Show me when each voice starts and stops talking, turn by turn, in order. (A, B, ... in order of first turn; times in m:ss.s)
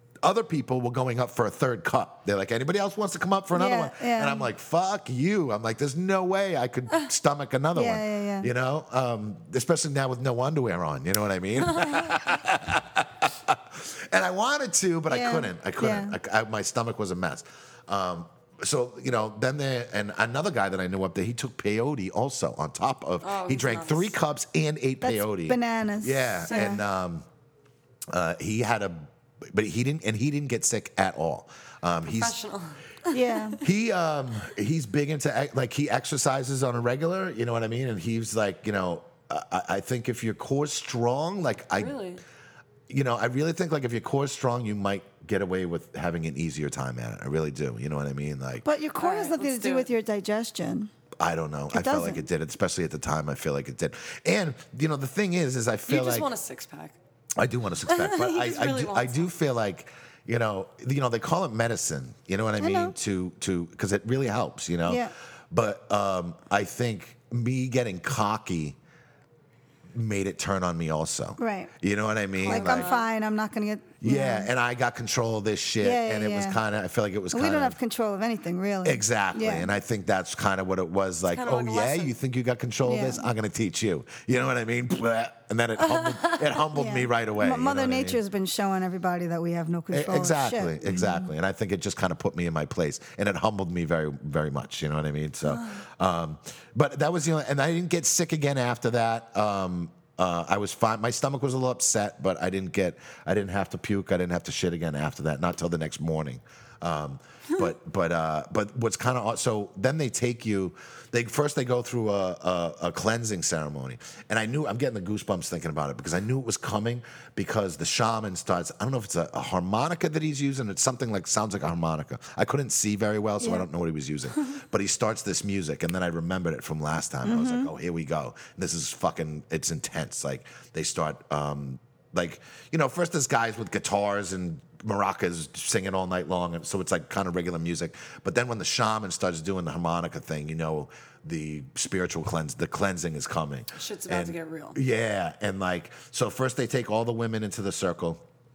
0:00.2-0:27.2 A
0:03.5-0:04.5 B
0:07.7-0:08.5 B
0:11.8-0:12.0 C
0:15.1-0:16.2 B
0:23.2-0:24.1 C
0:25.0-0:26.8 B
0:26.5-0:26.8 C
0:28.1-0:32.4 A
0:32.1-0:33.1 C
0:33.1-0:33.6 B
0:33.6-0:42.0 A
0:41.8-0:42.2 C
0:42.9-0:48.6 A
0:48.6-0:50.9 B
0:49.0-0:49.9 C
0:51.2-0:56.3 A
0:51.7-0:52.2 B
0:55.9-0:57.0 C
0:57.4-1:08.8 A
0:57.9-0:59.3 C
1:02.6-1:02.9 B
1:04.9-1:05.1 B
1:09.9-1:12.9 A
1:11.4-1:11.7 B
1:12.4-1:13.1 C
1:12.4-1:14.5 B
1:14.0-1:17.8 A
1:15.8-1:16.6 B
1:17.3-1:19.7 B
1:18.8-1:28.2 A
1:21.3-1:22.1 C
1:22.8-1:23.3 B
1:25.9-1:26.5 C
1:26.7-1:31.3 B
1:29.9-2:28.2 A
2:03.4-2:03.6 B
2:07.2-2:07.7 B
2:23.8-2:24.8 C